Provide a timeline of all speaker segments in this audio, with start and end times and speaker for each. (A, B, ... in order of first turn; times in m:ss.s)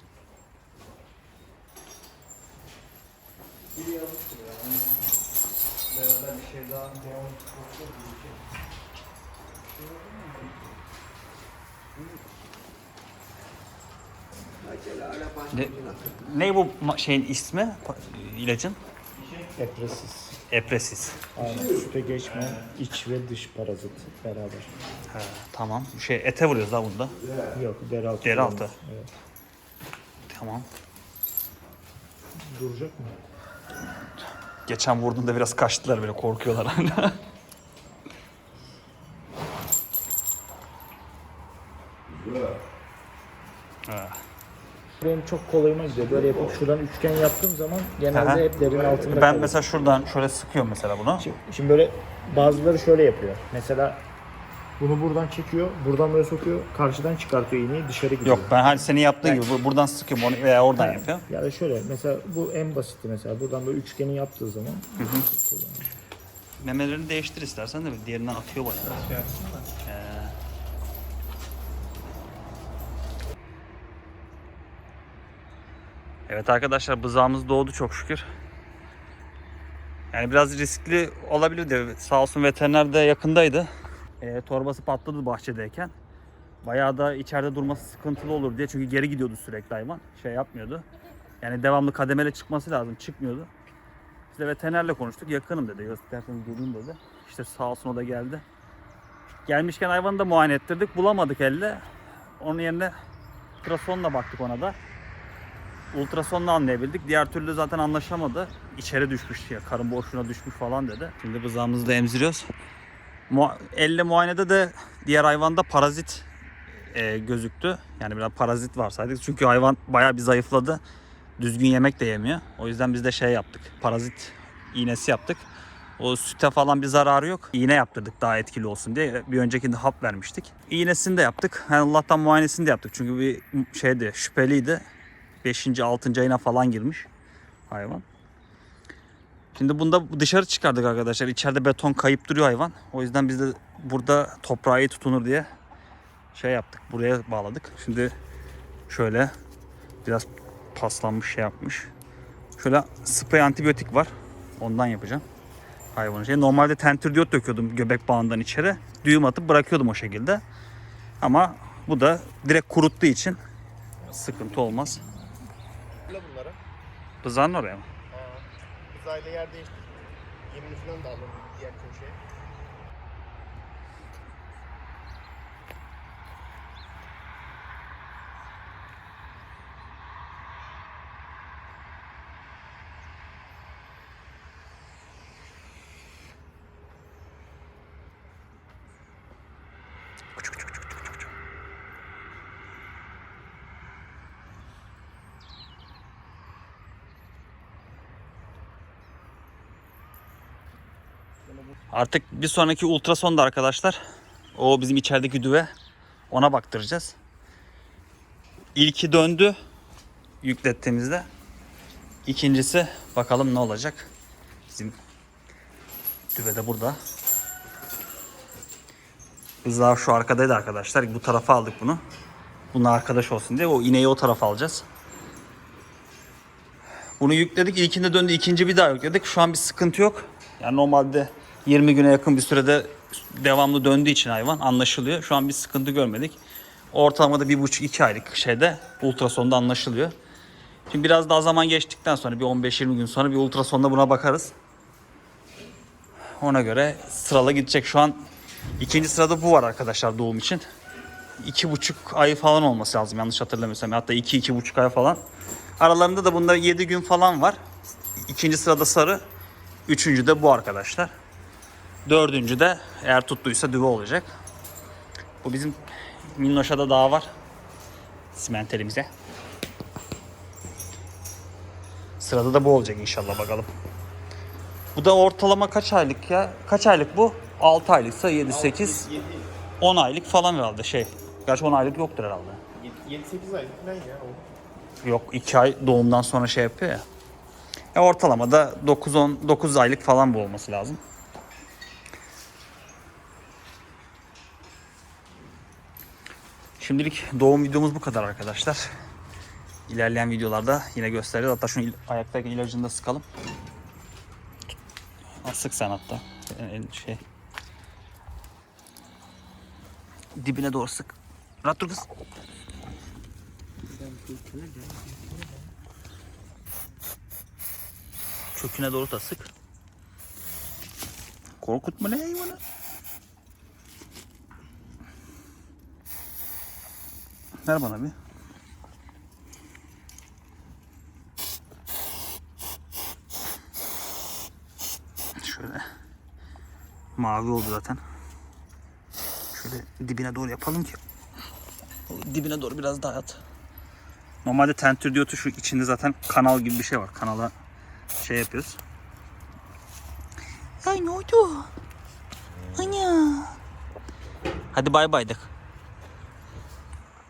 0:03.7-0:04.9 A
0:05.9-0:08.4 A
0:09.8-0:10.6 A
0:14.7-0:15.9 A
0:15.5-0:18.8 B
0:19.5-0:20.4 C
0:20.5-0:21.3 B
0:21.3-0:24.7 C
0:25.1-0:27.2 B
0:27.5-0:29.1 C
0:28.2-0:28.8 B
0:30.3-0:30.7 B
0:32.4-0:33.2 C
0:34.7-0:37.2 B
0:43.9-0:44.2 B
0:45.0-0:49.6 C
0:48.1-0:48.5 B
0:49.0-0:51.2 B
0:51.2-0:54.0 C
0:54.8-0:58.6 C
0:58.2-1:01.2 B
1:00.8-1:05.9 C
1:05.0-1:05.3 B
1:06.6-1:09.1 B
1:08.8-1:09.7 A
1:09.8-1:10.3 B
1:16.3-1:18.3 B
1:20.1-1:25.9 B
1:26.6-1:30.8 B
1:31.4-1:33.5 B
1:34.3-1:38.4 B
1:39.5-1:41.8 B
1:42.4-1:43.0 B
1:43.6-1:44.8 B
1:45.9-1:52.5 B
1:53.3-2:00.8 B
2:01.4-2:05.5 B
2:06.0-2:14.8 B
2:15.4-2:17.1 B
2:17.7-2:18.0 B
2:19.5-2:25.5 B
2:26.3-2:28.1 B
2:28.9-2:29.3 B
2:30.0-2:31.9 B
2:32.6-2:35.2 B
2:35.9-2:40.4 B
2:41.2-2:43.4 B
2:44.0-2:45.0 B
2:46.1-2:46.6 A
2:47.2-2:47.9 B
2:48.1-2:52.2 A
3:10.4-3:11.2 B
3:21.9-3:24.0 B
3:24.5-3:25.7 B
3:26.3-3:27.2 B
3:28.8-3:29.6 B
3:30.4-3:31.3 B
3:32.2-3:34.1 B
3:34.7-3:35.0 B
3:36.3-3:37.0 B
3:39.6-3:42.0 B
3:42.7-3:44.8 B
3:47.2-3:56.4 B
3:56.9-4:00.2 B
4:00.9-4:04.5 B
4:06.4-4:08.3 B
4:08.8-4:10.7 B
4:11.4-4:15.2 B
4:15.8-4:17.6 B
4:18.2-4:19.2 B
4:19.9-4:21.1 B
4:22.0-4:24.3 B
4:25.4-4:27.3 B
4:28.3-4:29.1 B
4:32.2-4:33.7 B
4:35.0-4:39.1 B
4:38.5-4:39.5 A
4:39.8-4:42.6 B
4:42.8-4:44.4 A
4:45.0-4:47.0 B
4:47.9-4:51.0 B
4:56.8-4:58.9 B
4:59.9-5:03.2 B
5:05.4-5:07.2 B
5:10.4-5:12.1 B
5:13.9-5:15.7 C
5:18.5-5:19.5 B
5:21.6-5:22.6 B
5:27.6-5:28.1 B
5:35.4-5:35.8 B
5:37.2-5:38.0 B
5:39.5-5:41.0 B
5:42.1-5:43.4 B
5:44.4-5:47.5 B
5:48.2-5:48.8 B
5:50.8-5:51.7 B
5:52.7-5:53.6 B
5:54.7-5:55.5 B